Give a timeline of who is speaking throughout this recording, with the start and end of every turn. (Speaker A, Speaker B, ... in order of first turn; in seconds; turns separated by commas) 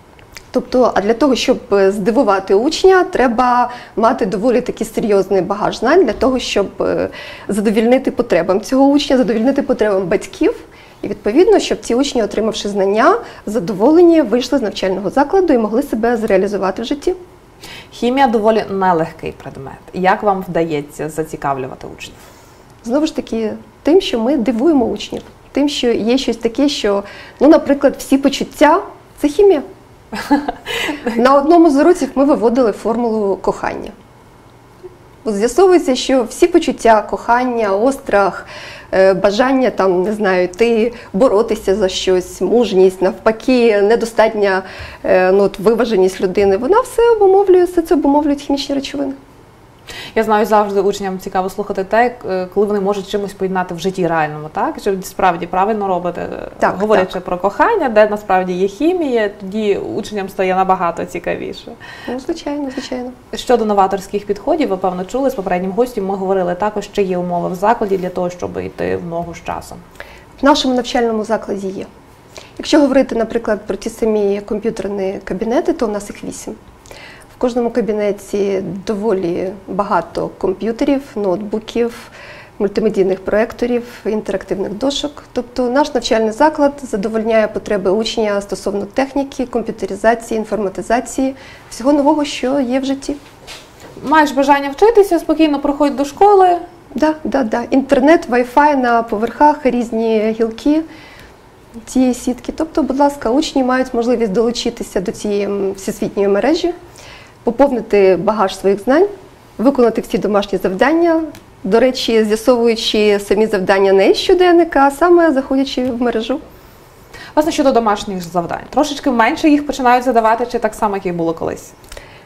Speaker A: 0.5-17.2, Speaker B: 17.9-22.2, Speaker A: 22.8-29.6, Speaker A: 31.1-33.9, Speaker A: 35.2-49.2, Speaker B: 50.1-61.8, Speaker A: 56.6-57.1, Speaker A: 62.1-63.1, Speaker B: 63.3-69.8, Speaker A: 70.4-71.9, Speaker A: 72.6-76.6, Speaker A: 77.3-93.2, Speaker B: 94.0-96.6, Speaker A: 96.9-100.8, Speaker A: 101.9-106.8, Speaker A: 107.4-116.4, Speaker B: 117.4-121.7